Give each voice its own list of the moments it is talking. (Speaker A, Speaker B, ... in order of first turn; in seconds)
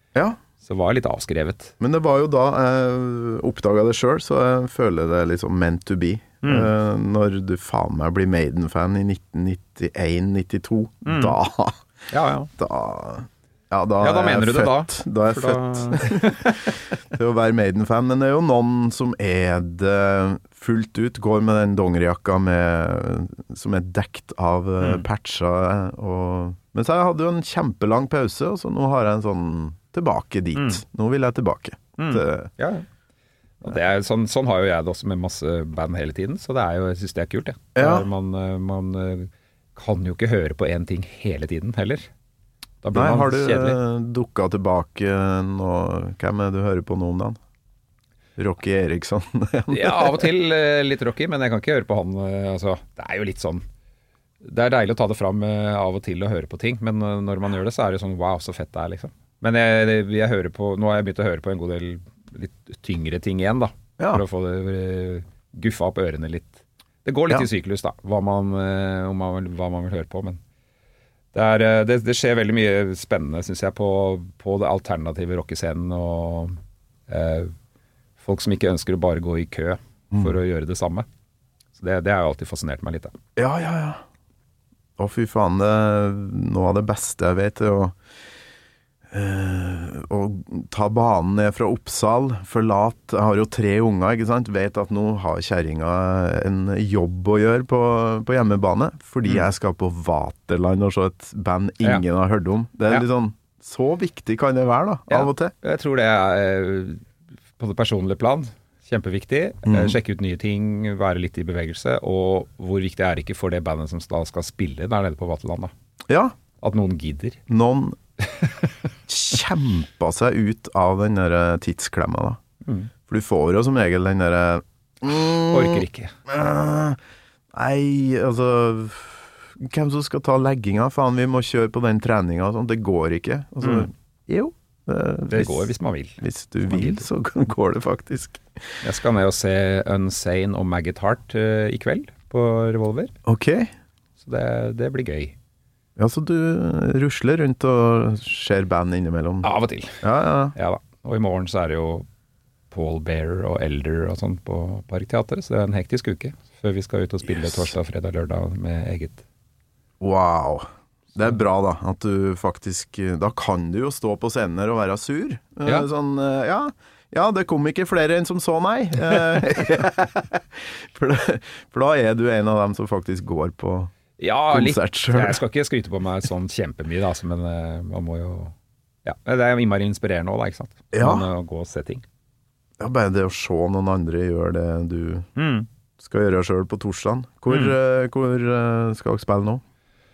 Speaker A: 0.6-1.7, 6.4-6.7, 11.1-11.4, 12.1-12.5, 14.0-16.8, 24.8-25.1, 30.5-30.8, 32.0-32.9, 33.6-42.1, 42.8-43.8, 49.7-53.6, 54.4-70.4, 71.3-76.5, 77.1-77.5, 78.2-81.1, 81.8-83.1, 105.1-107.0, 107.6-115.7, 116.6-117.4, 118.2-118.7, 122.6-122.9, 125.5-126.1, 133.6-133.9, 135.3-137.0, 138.8-143.1, 144.2-145.3, 149.4-150.0, 150.5-152.1, 152.7-159.2, 174.2-178.5, 179.0-182.0, 185.3-185.7, 187.5-187.7
Speaker B: 1.8-11.8, 12.6-32.5, 37.8-38.1, 42.9-47.4, 48.4-50.3, 64.0-64.2, 83.3-84.0, 85.0-88.0, 89.1-105.5, 109.7-110.0, 116.1-116.3, 117.5-118.0, 119.1-122.4, 123.1-127.0, 127.5-138.7, 143.2-143.7, 146.0-149.5, 150.0-150.5, 157.2-157.7, 160.0-173.9, 174.5-175.4, 180.9-181.3, 182.8-185.3, 186.0-189.6